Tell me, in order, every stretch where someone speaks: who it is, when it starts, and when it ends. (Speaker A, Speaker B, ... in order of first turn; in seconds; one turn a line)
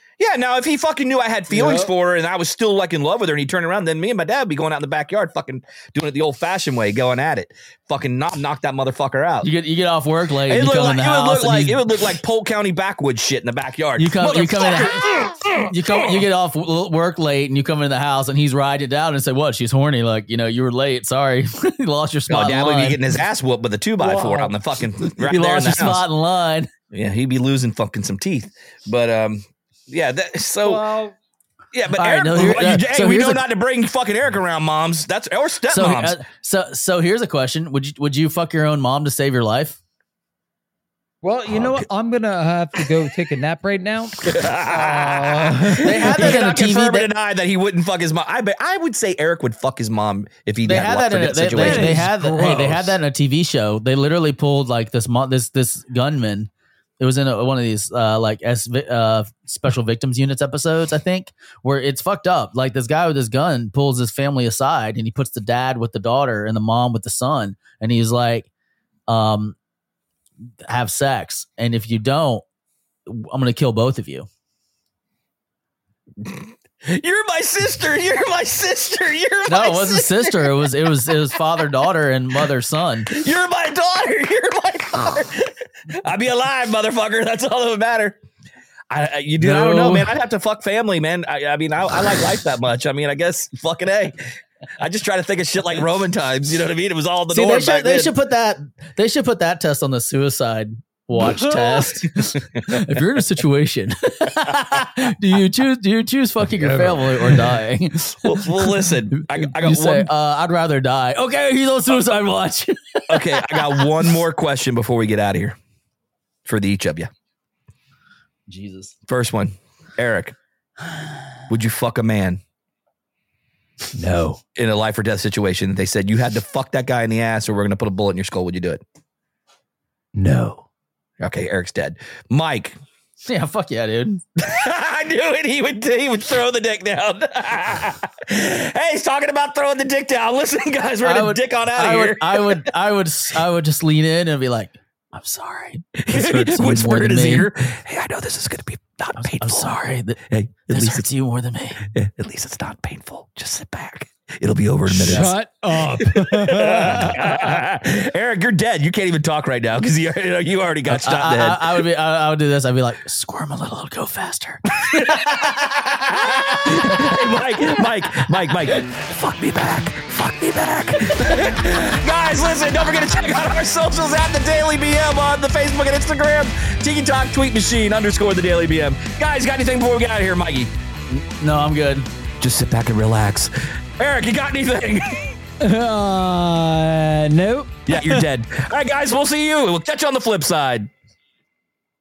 Speaker A: 0.2-9.5
Speaker B: 1.5-1.9
Speaker C: 9.4-12.0
Speaker A: 10.5-16.2
Speaker C: 14.0-23.1
Speaker A: 22.3-26.1
Speaker B: 24.0-24.5
Speaker C: 24.4-26.7
Speaker A: 26.9-30.9
Speaker B: 30.6-31.1
Speaker A: 31.7-36.2
Speaker C: 31.9-33.4
Speaker C: 35.7-39.8
Speaker B: 41.2-46.4
Speaker A: 41.5-41.8
Speaker A: 44.2-52.6
Speaker C: 45.8-47.1
Speaker C: 50.6-68.5
Speaker B: 51.5-52.9
Speaker C: 69.1-69.6
Speaker C: 70.7-72.4
Speaker C: 73.1-74.3
Speaker A: 76.2-81.1
Speaker C: 79.5-83.1
Speaker A: 83.1-88.2
Speaker A: 88.9-94.2
Speaker C: 89.4-90.1
Speaker A: 94.8-98.1
Speaker C: 97.3-114.2
Speaker B: 101.2-101.9
Speaker B: 106.5-107.5
Speaker A: 108.2-110.1
Speaker A: 113.1-115.6
Speaker A: 116.5-117.1
Speaker C: 118.5-118.9
Speaker A: 119.1-120.3
Speaker A: 121.5-122.4
Speaker B: 123.9-124.4
Speaker A: 124.5-128.8
Speaker B: 130.1-130.6
Speaker A: 131.2-132.8
Speaker C: 133.3-134.2
Speaker A: 134.4-142.7
Speaker C: 141.0-147.5
Speaker A: 146.0-149.8
Speaker C: 149.2-151.8
Speaker A: 150.3-151.1
Speaker A: 151.9-155.3
Speaker B: 154.9-157.5
Speaker C: 155.0-155.3
Speaker A: 155.9-161.8
Speaker C: 160.9-165.2
Speaker A: 164.8-180.7
Speaker C: 181.1-182.1
Speaker A: 182.4-185.3
Speaker B: 185.6-188.3
Speaker A: 187.9-190.9